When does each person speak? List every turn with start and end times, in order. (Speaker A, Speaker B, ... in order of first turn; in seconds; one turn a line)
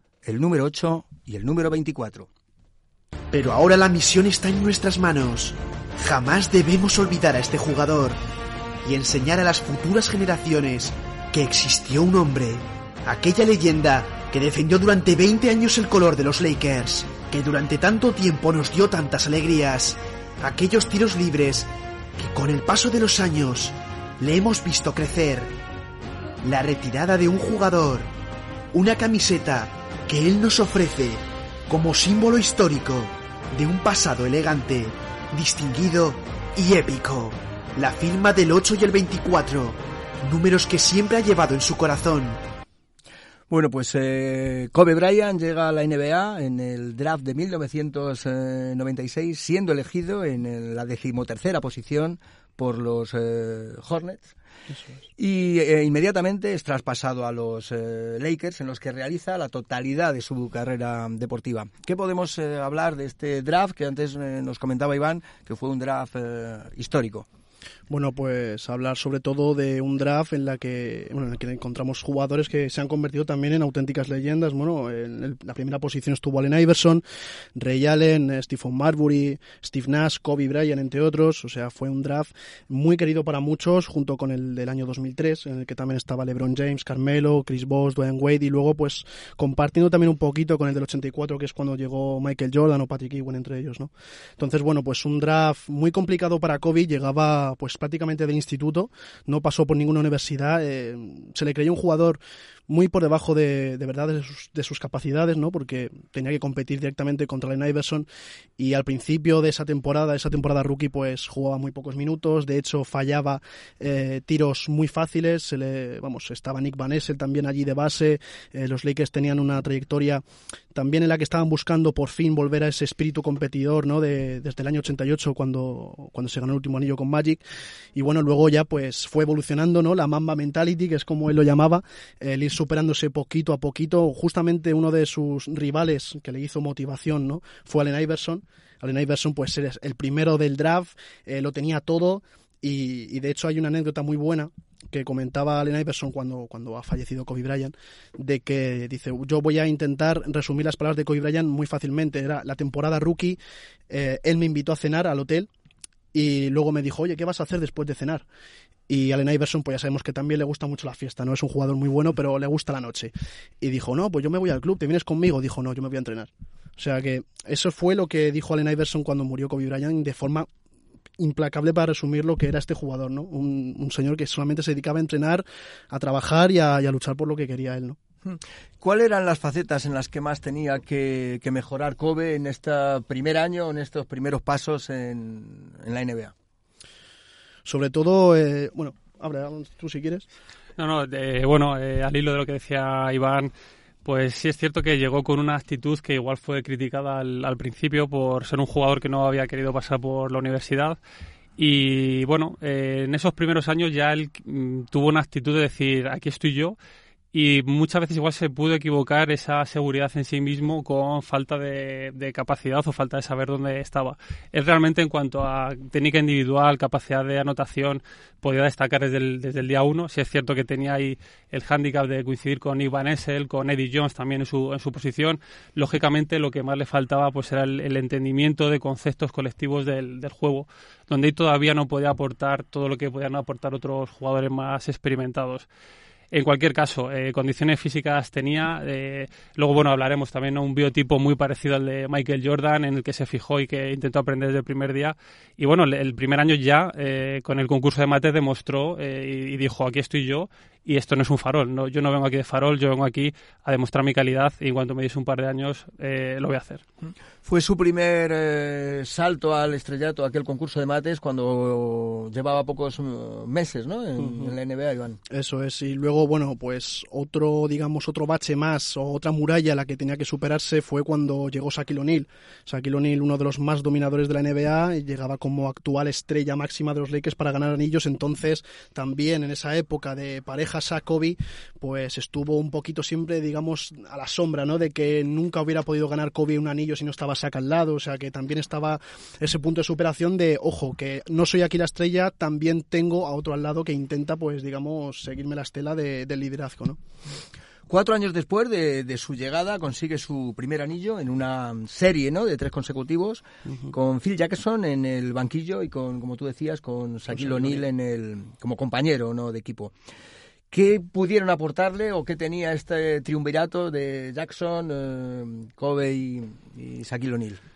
Speaker A: 0.2-2.3
Speaker B: 3.3-8.2
Speaker B: 8.8-25.5
Speaker B: 26.4-28.1
Speaker B: 28.7-42.4
Speaker A: 43.5-54.3
Speaker A: 55.2-67.2
Speaker C: 67.9-77.0
Speaker C: 77.5-108.1
Speaker C: 108.6-120.2
Speaker C: 120.7-127.4
Speaker C: 128.0-153.4
Speaker C: 153.9-155.5
Speaker C: 156.1-158.2
Speaker C: 158.9-170.5
Speaker C: 171.2-178.0
Speaker A: 178.2-186.3
Speaker C: 187.7-190.2
Speaker D: 190.8-193.5
Speaker D: 194.0-201.0
Speaker D: 201.6-206.8
Speaker D: 207.3-235.7
Speaker D: 236.3-256.8
Speaker A: 257.4-265.2
Speaker C: 264.2-264.5
Speaker C: 265.3-297.0
Speaker A: 297.9-309.9
Speaker C: 307.3-307.8
Speaker A: 310.7-317.6